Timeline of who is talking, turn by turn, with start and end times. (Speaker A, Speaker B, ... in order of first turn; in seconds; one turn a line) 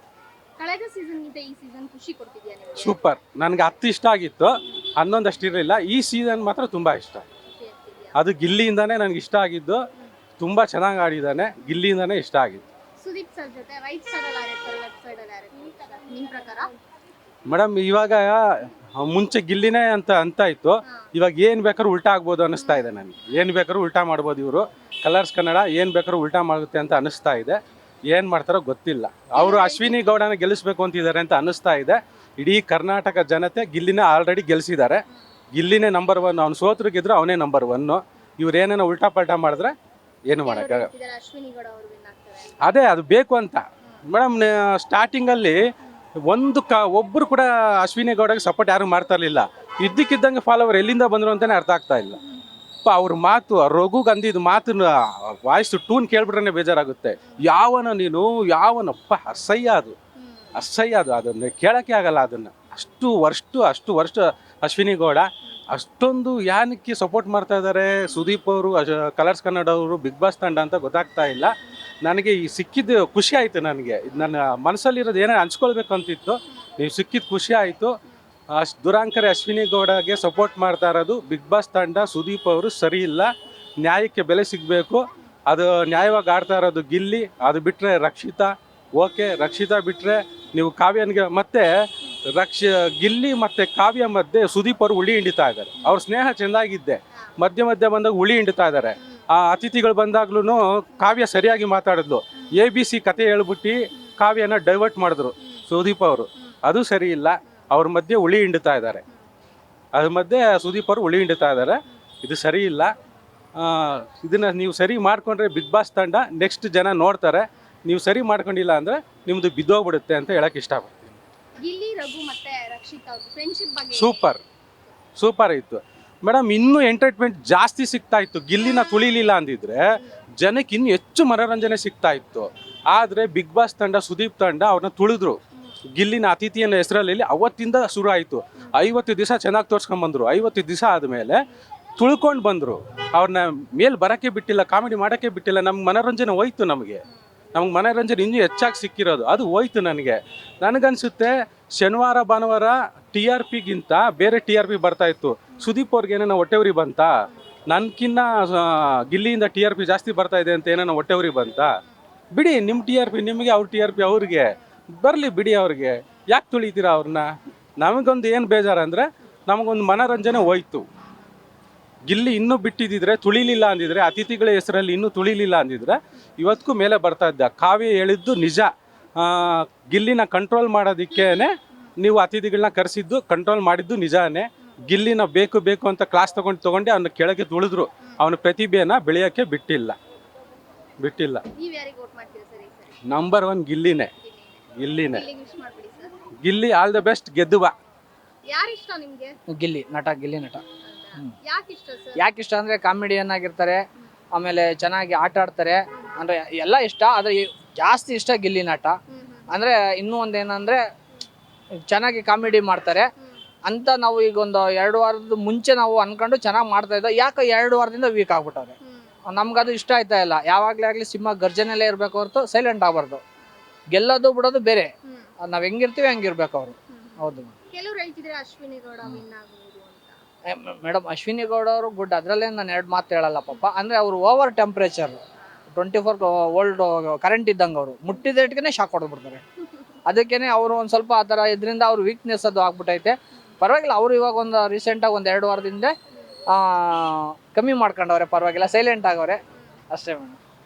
Speaker A: 0.6-3.0
Speaker B: 2.8-7.2
Speaker A: 7.4-8.2
Speaker B: 8.1-9.8
Speaker B: 10.4-12.6
Speaker A: 13.0-16.7
Speaker B: 17.5-35.0
Speaker A: 20.8-21.1
Speaker A: 22.5-23.0
Speaker A: 29.3-30.1
Speaker B: 35.5-39.7
Speaker B: 40.3-40.9
Speaker A: 40.3-42.6
Speaker B: 42.6-45.6
Speaker B: 46.3-52.2
Speaker A: 52.2-52.5
Speaker B: 52.8-60.0
Speaker A: 60.1-60.6
Speaker B: 60.5-71.5
Speaker B: 72.0-77.9
Speaker B: 78.5-91.7
Speaker B: 92.3-109.0
Speaker A: 99.0-99.2
Speaker B: 109.9-112.9
Speaker B: 113.6-121.2
Speaker A: 121.6-124.2
Speaker B: 123.9-124.4
Speaker B: 125.2-129.8
Speaker B: 130.4-135.4
Speaker B: 135.9-141.4
Speaker B: 142.0-147.0
Speaker B: 147.5-157.1
Speaker B: 157.7-161.7
Speaker B: 162.3-167.3
Speaker B: 167.8-170.9
Speaker B: 172.1-190.0
Speaker B: 191.0-191.4
Speaker A: 191.5-193.0
Speaker B: 193.1-194.1
Speaker A: 194.2-196.1
Speaker B: 194.8-195.2
Speaker B: 196.4-197.7
Speaker A: 198.5-199.4
Speaker C: 199.5-200.6
Speaker A: 200.8-202.2
Speaker C: 202.2-203.8
Speaker C: 204.3-208.9
Speaker A: 209.1-209.5
Speaker C: 209.5-210.8
Speaker C: 211.8-213.1
Speaker C: 213.7-218.7
Speaker A: 218.8-219.2
Speaker C: 219.3-223.2
Speaker A: 223.4-223.7
Speaker C: 223.9-224.9
Speaker A: 225.0-225.3
Speaker C: 225.4-227.5
Speaker A: 226.9-230.2
Speaker C: 230.5-239.4
Speaker C: 240.1-245.9
Speaker C: 246.5-249.4
Speaker A: 249.5-249.8
Speaker C: 249.9-250.4